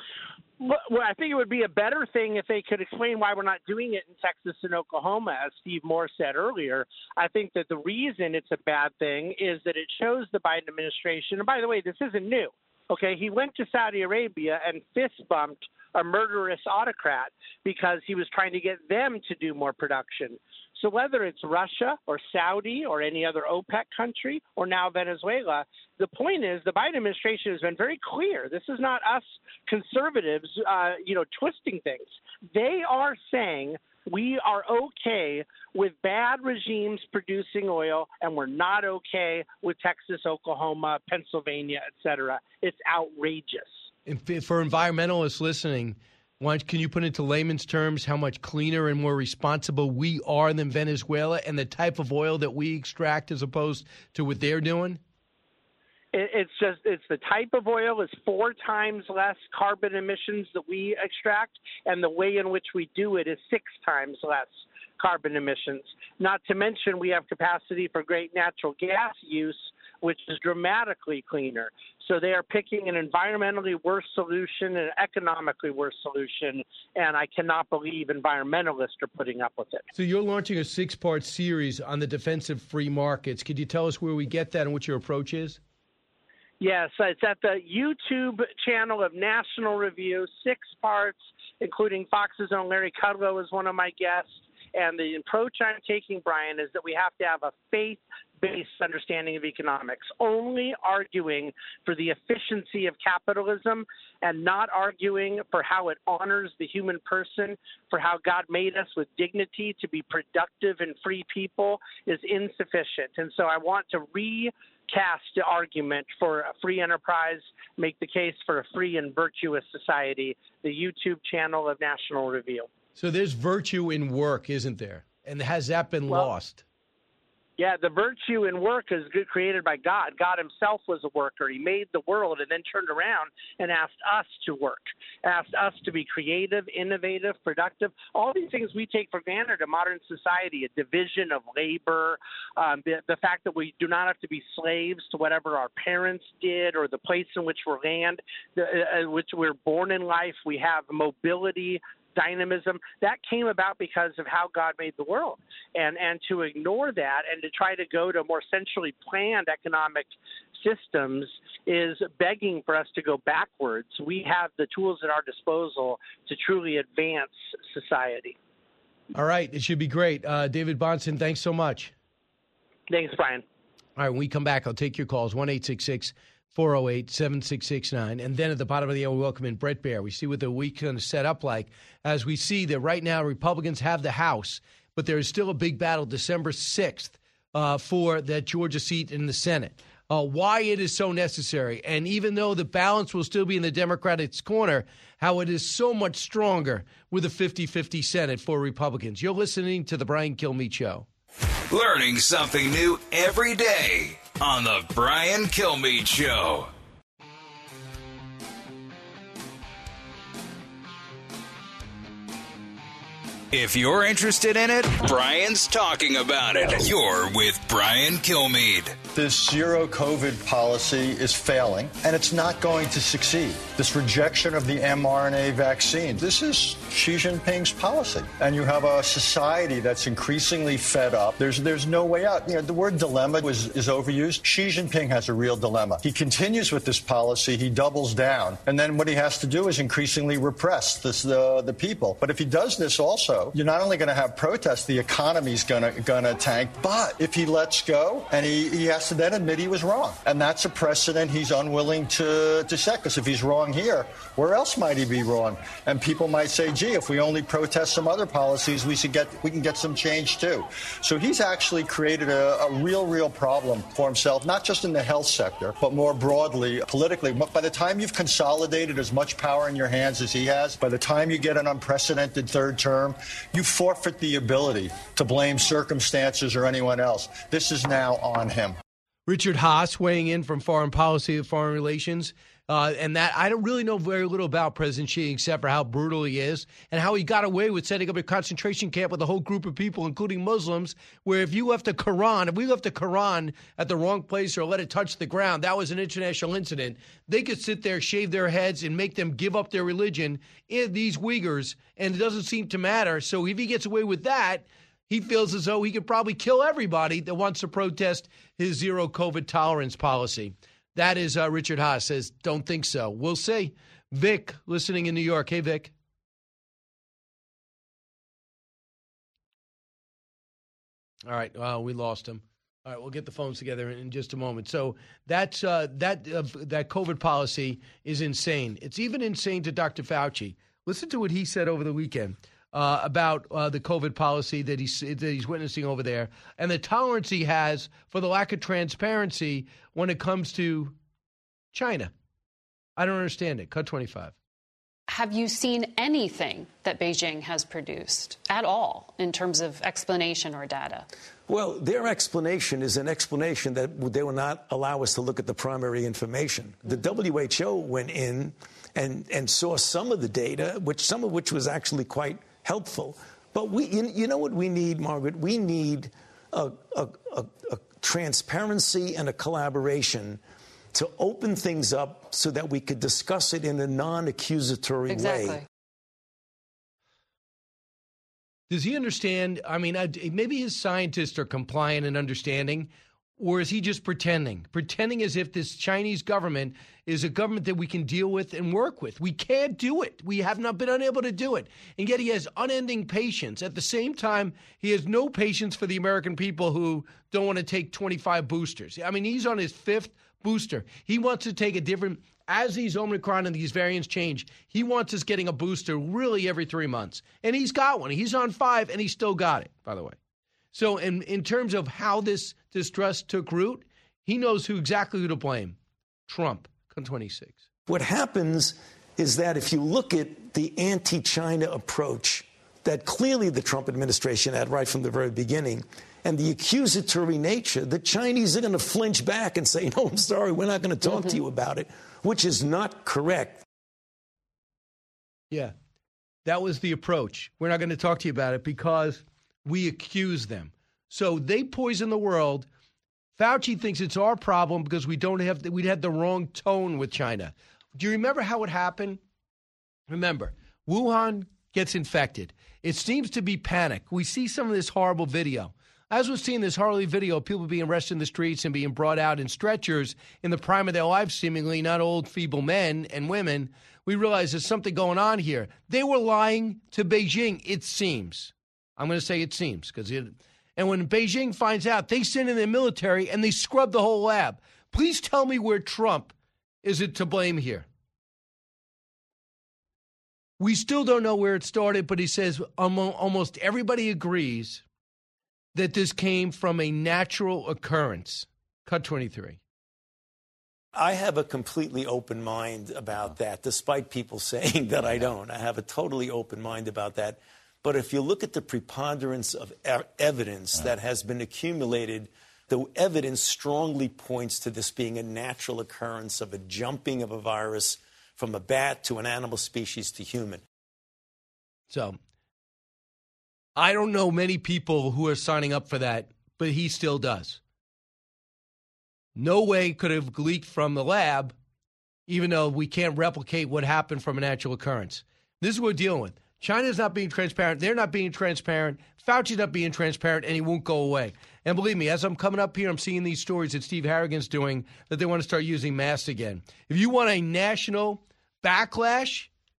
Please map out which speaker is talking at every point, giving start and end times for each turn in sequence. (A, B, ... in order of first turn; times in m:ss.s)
0:00.6-0:43.8 A
0:44.1-0:55.0 B
0:56.1-1:19.8 A
1:19.9-1:25.6 B
1:26.6-2:02.7 A
2:03.0-2:06.6 B
2:07.6-2:48.4 A
2:49.1-2:51.9 B
2:52.9-2:53.4 A
2:54.0-3:21.1 B
3:21.7-3:26.7 C
3:33.5-3:39.0 C
3:39.1-4:38.8 D
4:39.3-5:15.9 B
5:21.3-5:40.9 B
5:41.7-5:42.1 B
5:43.0-5:44.3 B
5:45.1-5:51.1 E
5:51.5-6:10.4 F
6:10.9-6:15.6 F
6:15.1-6:15.6 E
6:18.7-6:50.2 B
6:50.7-6:55.8 B
6:56.3-6:57.6 B
6:57.9-7:13.6 F
7:16.4-7:22.7 B
7:23.4-7:29.2 B
7:30.1-7:57.8 B
8:00.6-8:04.8 B
8:05.7-8:09.6 B
8:10.9-8:30.6 F
8:31.9-8:32.2 B
8:33.8-8:37.6 B
8:39.4-8:41.6 B
8:42.3-8:59.5 B